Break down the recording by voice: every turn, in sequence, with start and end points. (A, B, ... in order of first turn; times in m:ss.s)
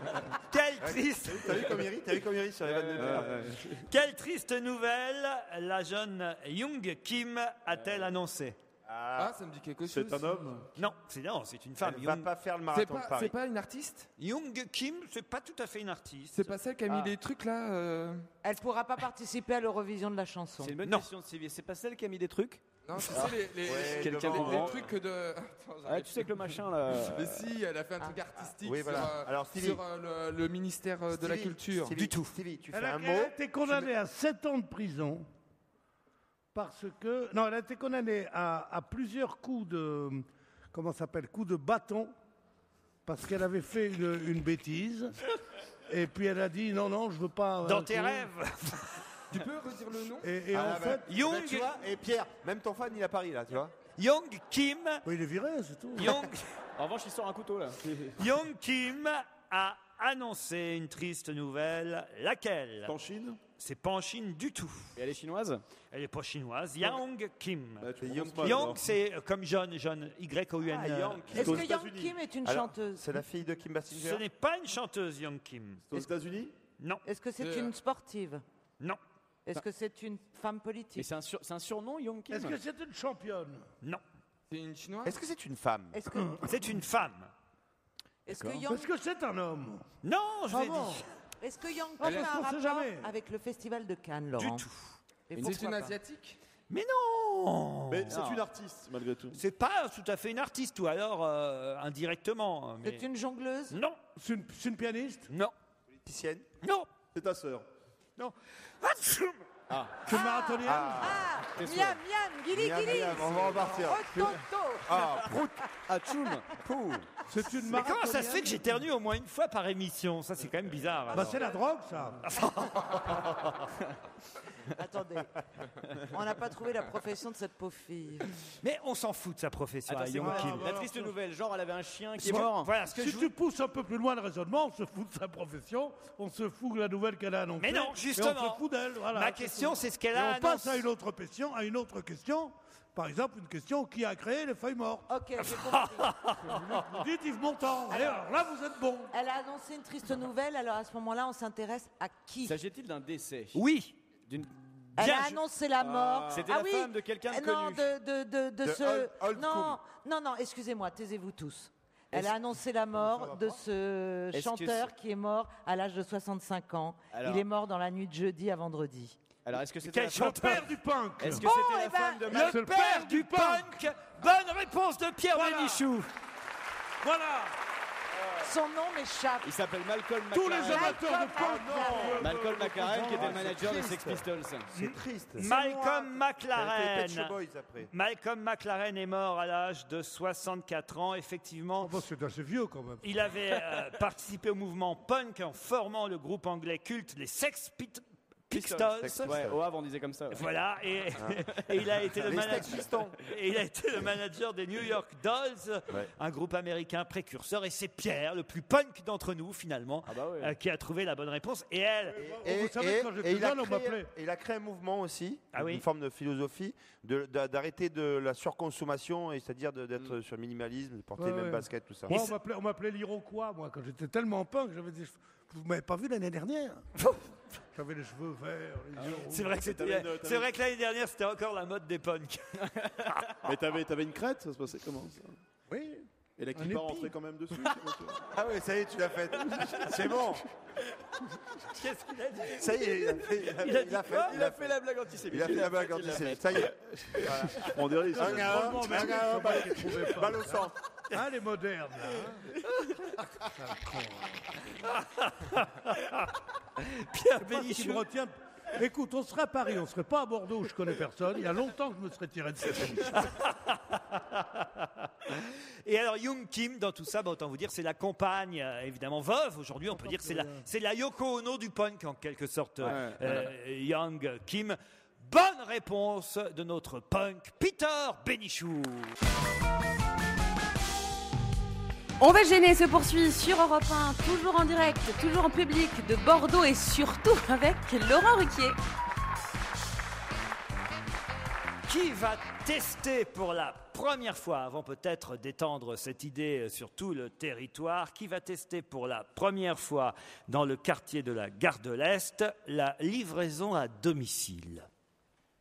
0:00.5-0:01.6 A
0:00.8-0:03.4 B
0:02.7-0:03.2 C
0:02.9-0:03.7 D
0:03.9-0:08.6 A
0:08.9-0:09.4 B
0:09.2-0:10.4 E
0:09.9-0:10.7 D
0:10.8-0:12.3 A
0:11.8-0:13.3 B
0:12.7-0:14.1 E
0:14.2-0:16.5 A
0:16.3-0:18.3 E
0:18.4-0:20.8 F
0:20.6-0:24.8 C
0:22.8-0:32.0 E
0:23.6-0:24.8 B
0:25.9-0:27.5 C
0:28.4-0:29.8 B
0:31.1-0:33.8 B
0:32.0-0:32.4 A
0:32.7-0:35.3 G
0:36.6-0:42.1 G
0:43.1-0:45.1 G
0:45.9-0:48.3 G
0:47.6-0:49.0 A
0:49.3-0:50.3 E
0:50.2-0:51.1 G
0:50.5-0:53.7 B
0:51.1-0:51.8 A
0:54.0-0:55.0 A
0:55.0-0:56.2 G
0:56.0-0:56.5 A
0:56.8-0:58.0 C
0:58.2-1:02.9 A
1:02.9-1:03.4 D
1:03.6-1:04.9 A
1:05.0-1:05.6 C
1:05.9-1:11.5 A
1:07.8-1:08.8 D
1:08.0-1:08.7 B
1:10.6-1:11.7 B
1:11.3-1:13.2 F
1:11.3-1:12.2 D
1:12.4-1:14.2 B
1:13.9-1:16.0 A
1:15.9-1:16.5 D
1:17.0-1:18.4 F
1:17.4-1:17.7 E
1:19.5-1:21.1 F
1:21.0-1:22.6 C
1:22.3-1:23.7 G
1:24.5-1:25.2 E
1:25.0-1:26.1 B
1:25.9-1:26.4 F
1:26.4-1:27.3 A
1:28.3-1:29.0 F
1:28.3-1:28.6 D
1:28.7-1:29.8 G
1:30.0-1:31.0 A
1:30.5-1:31.0 G
1:31.4-1:34.6 F
1:32.0-1:33.1 G
1:34.4-1:35.0 A
1:35.3-1:35.9 C
1:35.4-1:36.4 E
1:36.7-1:38.2 A
1:37.9-1:39.4 D
1:38.1-1:38.5 C
1:39.3-1:43.0 A
1:42.8-1:43.8 F
1:43.7-1:44.0 A
1:44.2-1:45.3 G
1:46.0-1:46.4 B
1:46.6-1:46.9 A
1:47.1-1:47.6 D
1:48.2-1:49.4 A
1:49.7-1:50.0 C
1:50.0-1:51.1 G
1:50.1-1:55.2 F
1:50.6-1:51.3 B
1:51.6-1:52.0 C
1:52.5-1:54.3 B
1:54.8-1:55.6 B
1:55.9-1:56.5 C
1:56.5-1:57.1 B
1:57.3-1:58.7 G
1:57.7-2:01.4 A
1:57.8-1:58.5 F
2:01.1-2:02.2 G
2:02.2-2:03.6 A
2:04.7-2:05.3 F
2:06.1-2:08.3 F
2:08.6-2:10.7 A
2:09.9-2:12.8 C
2:10.2-2:11.1 G
2:12.2-2:25.1 G
2:12.2-2:13.3 A
2:17.6-2:20.9 A
2:25.1-2:26.3 F
2:25.7-2:27.0 A
2:26.4-2:29.1 G
2:27.9-2:28.4 F
2:29.1-2:32.6 F
2:32.4-2:33.6 C
2:33.5-2:34.0 A
2:35.0-2:49.2 F
2:35.0-2:35.4 A
2:35.8-2:36.1 D
2:36.3-2:37.9 C
2:38.6-2:39.8 B
2:43.0-2:43.6 B
2:44.3-2:44.9 C
2:47.1-2:47.5 C
2:49.4-2:52.6 C
2:49.9-2:50.7 A
2:50.1-2:51.5 G
2:51.4-2:52.5 F
2:52.3-2:56.1 A
2:52.3-2:53.8 G
2:55.3-2:55.8 G
2:57.0-2:57.6 G
2:58.4-2:59.5 F
2:59.4-3:01.1 C
3:00.3-3:03.5 G
3:00.5-3:02.3 F
3:01.5-3:02.3 B
3:02.1-3:04.7 C
3:03.1-3:07.9 B
3:05.4-3:07.3 A
3:07.9-3:11.9 A
3:11.8-3:13.1 G
3:13.0-3:19.5 A
3:18.5-3:20.5 C
3:19.0-3:19.6 B
3:20.3-3:32.2 A
3:22.2-3:23.2 B
3:30.1-3:30.5 C
3:32.1-3:34.1 G
3:32.2-3:42.2 B
3:35.5-3:35.8 A
3:41.2-3:46.8 G
3:42.1-3:42.4 A
3:47.0-3:47.2 A
3:47.8-3:49.6 G
3:49.3-3:52.5 A
3:49.6-3:50.5 D
3:53.4-3:55.4 D
3:55.7-3:56.0 G
3:56.4-3:58.2 D
3:56.6-3:57.1 G
3:58.3-4:00.5 B
4:01.7-4:04.4 A
4:02.5-4:11.2 B
4:04.1-4:06.6 C
4:07.7-4:09.1 D
4:08.0-4:10.6 G
4:11.1-4:12.4 G
4:13.4-4:14.5 G
4:14.9-4:18.0 A
4:17.4-4:23.2 G
4:23.1-4:39.2 A
4:30.0-4:30.6 G
4:32.8-4:33.3 D
4:42.2-4:48.8 H
4:51.9-5:04.9 A